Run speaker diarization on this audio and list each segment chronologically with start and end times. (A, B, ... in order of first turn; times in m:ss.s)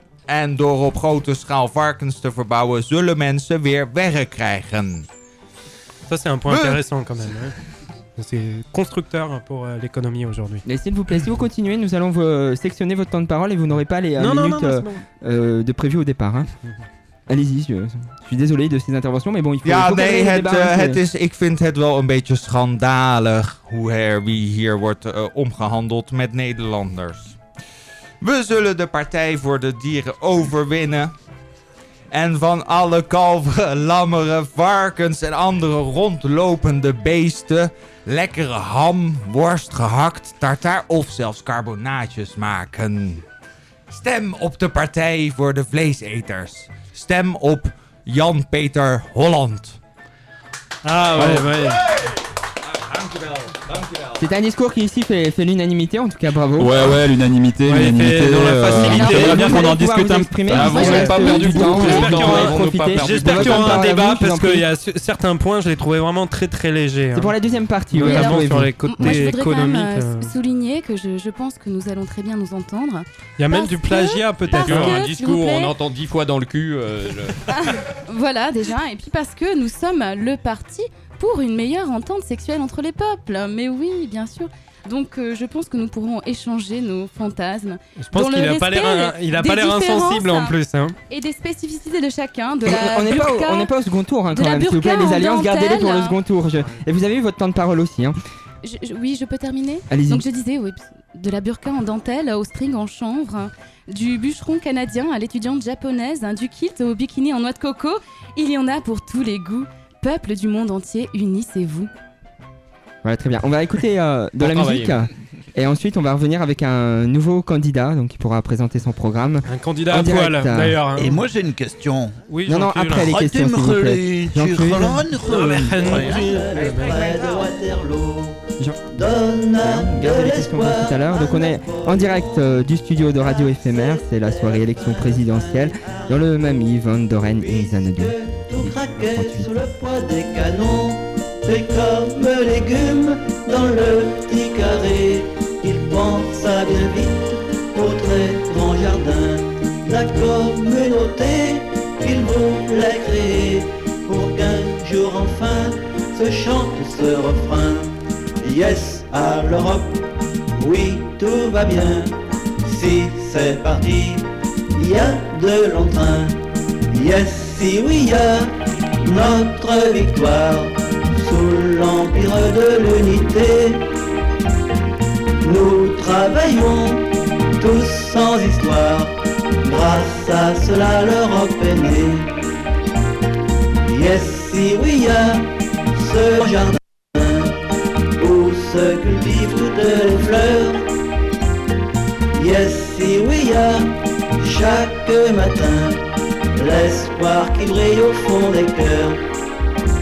0:00.3-0:05.1 A
0:06.1-0:07.5 B
0:06.5-0:06.8 A
0:08.2-0:10.6 B
0:10.6-0:16.5 C
0:14.2-0:15.0 B
0:17.3-0:21.0 C
0:19.6-0:27.4 A
0:28.2-0:31.1 A
0:32.1-0:43.2 A
0:43.9-0:49.8 A
0:50.8-0:51.8 B
0:52.9-0:54.1 A
0:54.2-0:56.9 C
0:56.6-1:01.2 D
0:57.6-0:59.6 B
0:58.8-0:59.6 E
0:59.2-1:04.6 C
1:00.5-1:03.9 F
1:00.5-1:01.9 E
1:01.6-1:07.3 B
1:07.1-1:08.7 C
1:07.9-1:10.3 B
1:08.0-1:15.7 E
1:13.4-1:15.0 B
1:14.4-1:17.4 F
1:17.6-1:30.5 E
1:28.0-1:30.9 B
1:31.1-1:33.7 E
1:32.6-1:38.1 C
1:34.3-1:36.1 E
1:38.6-1:51.9 E
1:39.9-1:40.2 C
1:53.0-2:00.8 C
1:54.4-1:55.0 F
1:59.5-2:01.2 B
2:01.0-2:02.2 G
2:02.3-2:03.1 B
2:02.5-2:05.1 C
2:02.9-2:06.4 G
2:05.2-2:08.4 H
2:05.3-2:07.0 B
2:08.9-2:16.5 H
2:09.6-2:18.1 C
2:17.2-2:40.0 H
2:18.6-2:19.5 C
2:40.6-2:42.1 H
2:42.6-2:46.4 H
2:46.9-2:48.5 H
2:49.0-2:53.8 H
2:55.4-3:02.3 H
3:03.8-3:07.5 H
3:08.2-3:10.8 H
3:12.4-3:16.0 H
3:16.5-3:19.2 H